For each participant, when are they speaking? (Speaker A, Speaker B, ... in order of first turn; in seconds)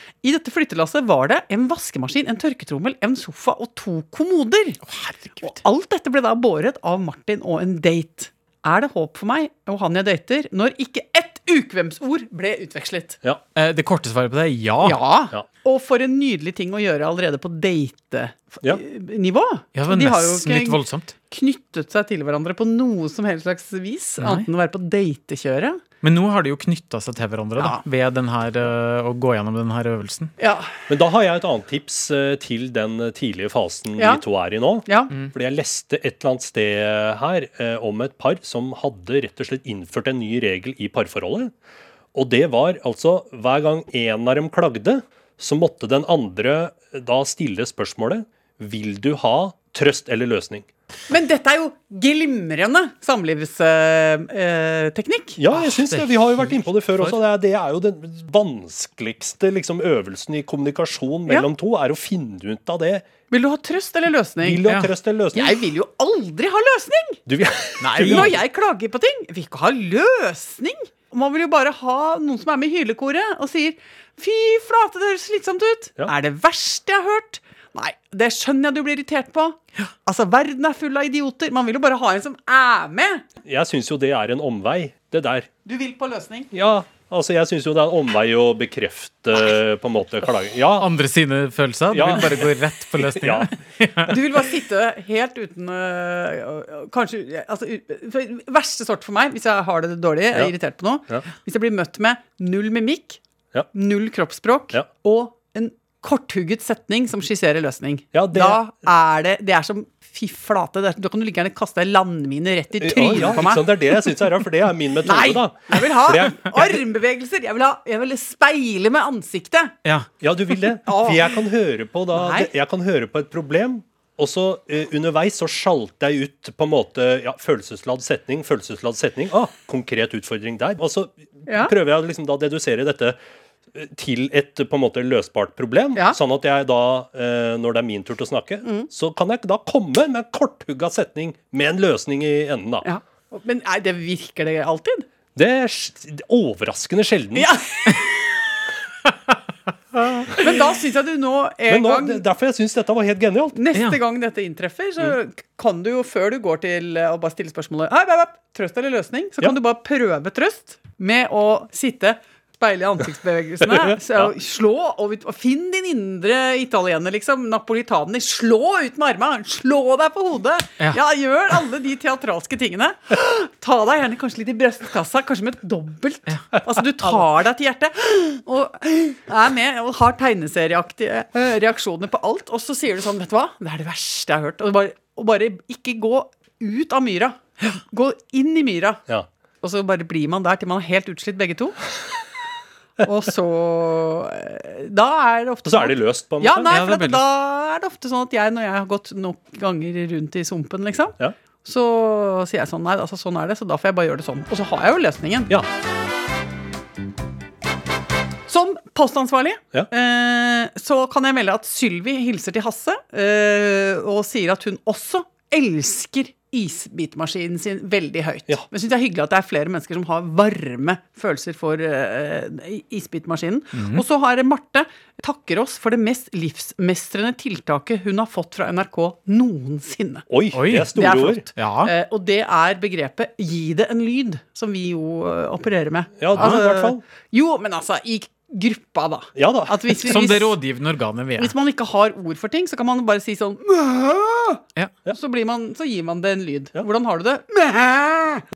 Speaker A: 0.2-4.8, 5.4-13.2, 14.8-25.8, 27.6-27.8, 30.4-30.9, 34.0-34.2, 34.8-35.1, 51.1-55.4, 63.3-64.6, 65.3-67.2, 67.9-83.2, 85.6-86.5, 94.0-103.2, 103.7-114.1, 115.0-119.7, 120.8-121.2, 122.1-122.5, 131.5-131.7, 138.6-138.9, 142.8-145.1, 147.3-148.4, 150.3-152.2, 153.5-189.0, 189.6-191.8, 193.0-205.5, 208.5-230.2, 230.9-240.5, 241.4-248.5
Speaker B: 4.9-5.5, 13.6-15.0, 19.7-21.1, 24.2-24.4, 26.0-30.3, 55.5-57.1, 64.6-64.9, 67.8-68.3, 90.8-94.2, 196.7-197.2, 223.7-224.0, 230.5-230.9, 231.6-231.9, 240.0-241.5
Speaker C: 30.9-41.5, 42.1-50.6, 55.4-63.1, 64.4-65.5, 67.3-68.3, 83.4-85.5, 86.5-90.9, 91.9-93.5, 108.1-108.6, 112.8-116.8, 120.2-133.2, 133.7-142.8, 145.3-147.5, 151.7-153.6, 195.6-196.7, 230.3-231.5, 236.2-237.0, 239.3-239.9